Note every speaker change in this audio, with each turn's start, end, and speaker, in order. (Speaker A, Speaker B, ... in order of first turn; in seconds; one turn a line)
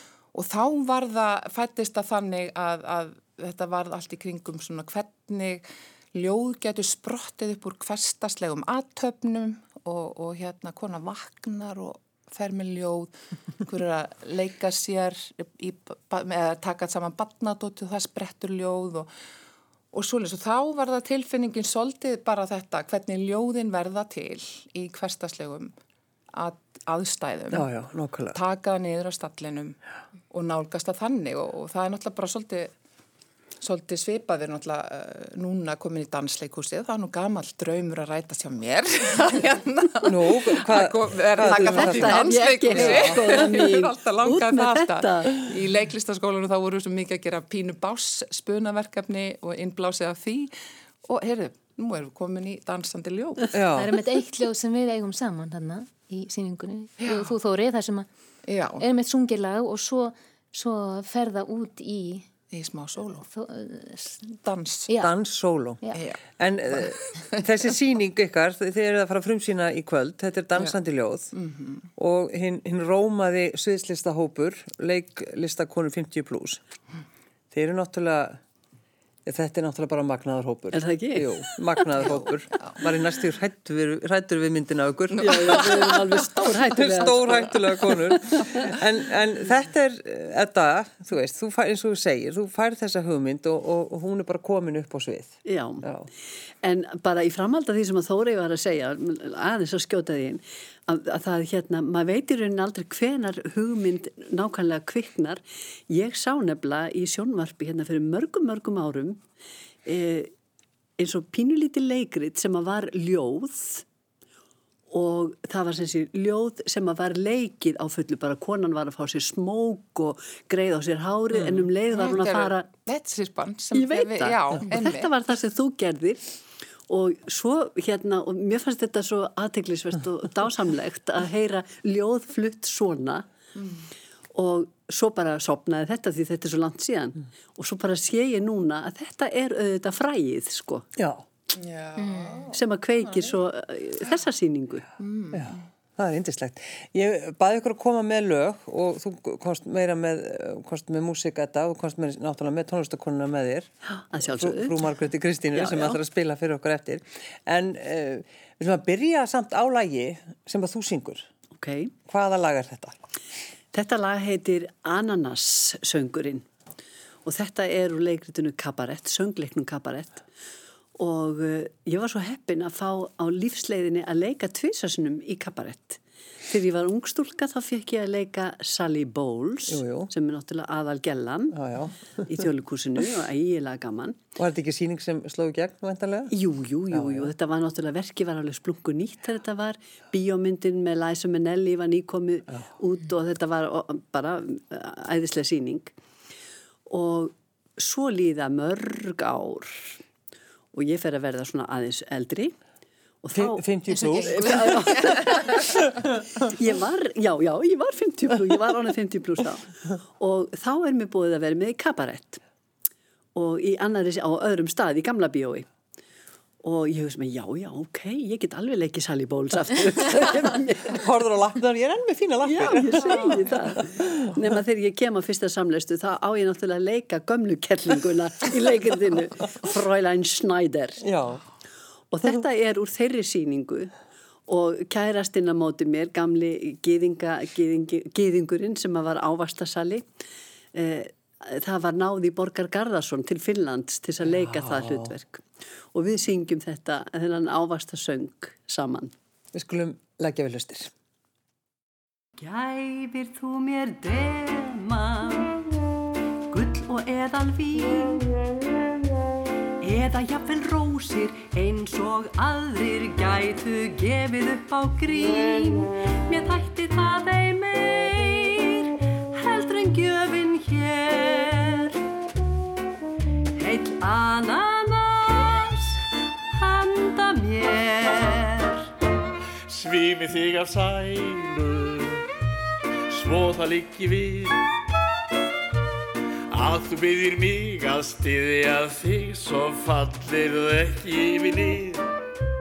Speaker A: 0.3-13.1
Speaker A: 13.6-19.1
Speaker A: 19.9-25.7
Speaker A: 26.3-27.7
Speaker B: 27.5-28.4
Speaker A: 28.3-29.8
Speaker A: 30.3-32.7
Speaker A: 33.6-50.5
Speaker B: 40.0-43.4
Speaker C: 41.5-45.4
Speaker A: 51.0-53.6
Speaker B: 53.5-54.0
Speaker D: 53.7-58.1
Speaker A: 57.0-57.3
Speaker A: 58.5-58.8
Speaker D: 58.8-62.3
Speaker A: 62.5-63.2
Speaker D: 63.2-64.2
Speaker A: 64.3-64.9
Speaker B: 65.0-65.8
Speaker A: 65.9-66.2
Speaker B: 66.4-71.3
Speaker A: 66.7-67.4
Speaker A: 71.3-71.9
Speaker B: 72.0-76.6
Speaker B: 77.5-78.4
Speaker B: 79.2-86.0
Speaker C: 80.7-81.8
Speaker C: 85.2-88.8
Speaker B: 86.7-96.1
Speaker C: 95.5-95.9
Speaker C: 96.6-109.2
Speaker C: 109.8-110.3
Speaker C: 111.0-113.8
Speaker C: 114.9-122.7
Speaker B: 121.3-121.7
Speaker A: 121.9-125.1
Speaker C: 123.7-126.4
Speaker C: 126.9-133.2
Speaker A: 133.6-133.8
Speaker C: 134.3-140.9
Speaker B: 141.0-141.2
Speaker A: 141.6-143.4
Speaker D: 142.0-142.5
Speaker C: 142.5-144.9
Speaker A: 145.0-145.6
Speaker B: 145.3-153.7
Speaker C: 153.9-154.8
Speaker B: 154.2-161.3
Speaker C: 155.5-156.0
Speaker C: 161.6-161.9
Speaker B: 162.1-163.0
Speaker C: 163.7-166.5
Speaker C: 167.2-170.2
Speaker C: 171.0-181.6
Speaker B: 179.7-180.1
Speaker B: 181.5-182.4
Speaker C: 182.2-184.2
Speaker B: 184.4-186.3
Speaker C: 186.3-195.9
Speaker B: 186.9-187.3
Speaker C: 196.9-200.0
Speaker C: 200.7-202.6
Speaker C: 203.2-205.7
Speaker B: 203.3-206.1
Speaker D: 203.9-205.4
Speaker C: 206.4-212.4
Speaker C: 213.3-215.7
Speaker C: 216.6-221.0
Speaker B: 220.9-224.6
Speaker C: 222.4-231.0
Speaker B: 231.0-231.4
Speaker C: 232.1-233.9
Speaker C: 234.5-240.1
Speaker C: 240.7-249.1
Speaker B: 244.4-245.1
Speaker B: 249.5-250.9
Speaker C: 252.4-255.6
Speaker C: 256.5-258.4
Speaker C: 259.8-272.0
Speaker C: 273.6-278.9
Speaker E: 279.7-282.2
Speaker E: 283.1-284.6
Speaker E: 286.5-292.1